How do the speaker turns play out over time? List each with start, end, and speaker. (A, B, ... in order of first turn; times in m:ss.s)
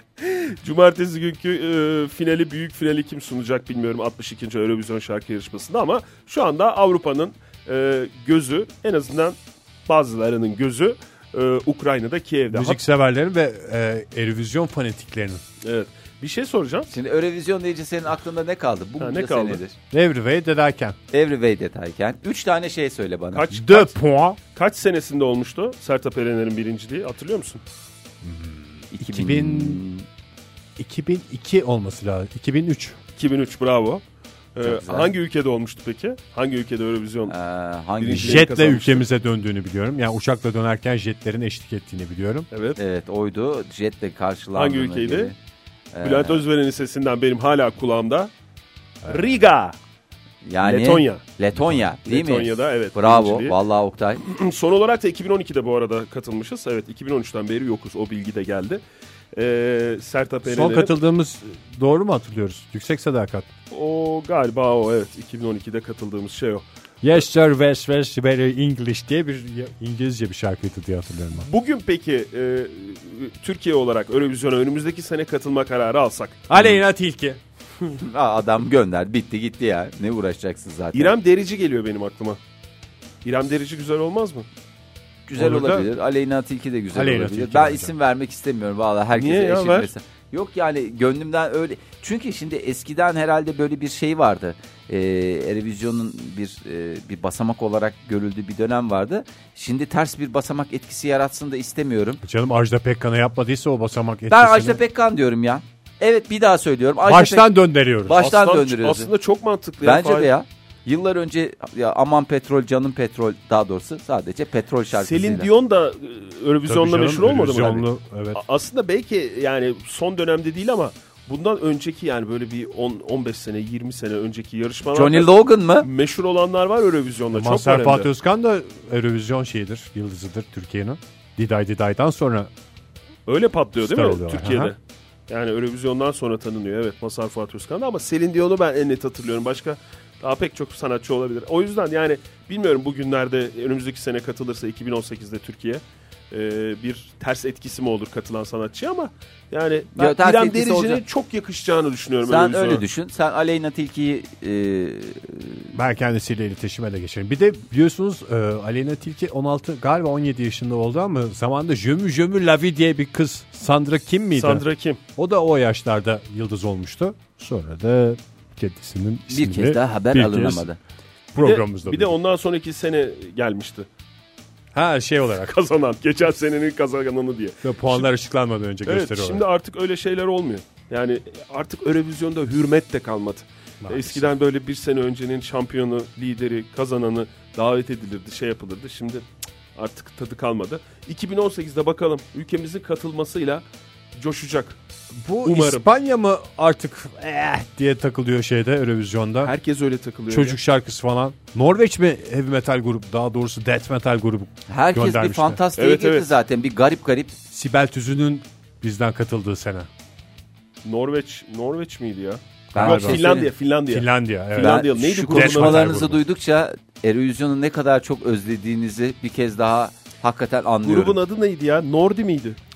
0:00.2-0:12.8 A
0:12.5-0:15.4 B
0:15.6-0:16.9 A
0:16.9-0:19.7 C
0:19.0-0:19.6 A
0:19.9-0:21.0 B
0:21.1-0:23.5 C
0:23.3-0:23.9 A
0:23.5-0:24.4 B
0:24.5-0:27.6 A
0:28.2-0:29.8 B
0:28.9-0:30.0 C
0:30.8-0:33.0 B
0:33.2-0:34.0 A
0:34.5-0:37.3 A
0:34.6-0:35.1 C
0:37.3-0:38.5 C
0:38.0-0:39.1 A
0:38.1-0:42.5 B
0:42.5-0:42.8 A
0:42.8-0:45.3 C
0:44.5-0:45.3 A
0:45.9-0:46.4 C
0:46.0-0:48.3 A
0:49.0-0:49.8 A
0:50.4-0:54.2 C
0:50.6-0:51.2 A
0:52.0-0:53.6 A
0:54.2-0:58.8 A
0:59.3-1:01.0 A
1:00.4-1:03.5 B
1:03.7-1:06.6 A
1:07.0-1:11.5 B
1:11.3-1:16.4 A
1:16.5-1:17.4 B
1:16.5-1:16.8 C
1:18.0-1:21.2 C
1:20.9-1:22.4 A
1:23.2-1:24.4 A
1:25.3-1:42.2 C
1:25.4-1:25.9 B
1:26.9-1:27.9 B
1:29.1-1:29.9 A
1:42.2-1:44.8 B
1:44.3-1:47.5 C
1:47.0-1:48.2 B
1:48.0-1:49.1 C
1:48.1-1:50.3 A
1:49.8-1:55.5 C
1:54.9-2:08.1 A
1:56.7-1:58.4 B
2:04.9-2:05.9 C
2:07.3-2:12.5 B
2:13.2-2:14.8 A
2:13.8-2:14.7 B
2:15.3-2:32.8 A
2:30.0-2:31.0 C
2:32.2-2:35.7 C
2:35.7-2:44.6 B
2:44.3-2:45.0 A
2:45.2-2:50.6 B
2:49.3-2:50.8 C
2:51.3-2:52.1 B
2:51.4-2:53.9 A
2:54.7-2:55.5 B
2:55.4-2:58.1 A
2:57.6-2:59.4 B
2:58.8-3:14.8 A
3:03.8-3:04.3 B
3:15.2-3:19.5 B
3:15.4-3:15.8 A
3:19.4-3:20.6 A
3:20.3-3:25.6 B
3:24.7-3:27.4 C
3:25.8-3:26.3 A
3:27.5-3:29.9 B
3:30.8-3:36.0 A
3:32.7-3:33.5 C
3:32.8-3:33.3 B
3:33.9-3:36.2 B
3:34.6-3:41.2 C
3:40.8-3:42.6 A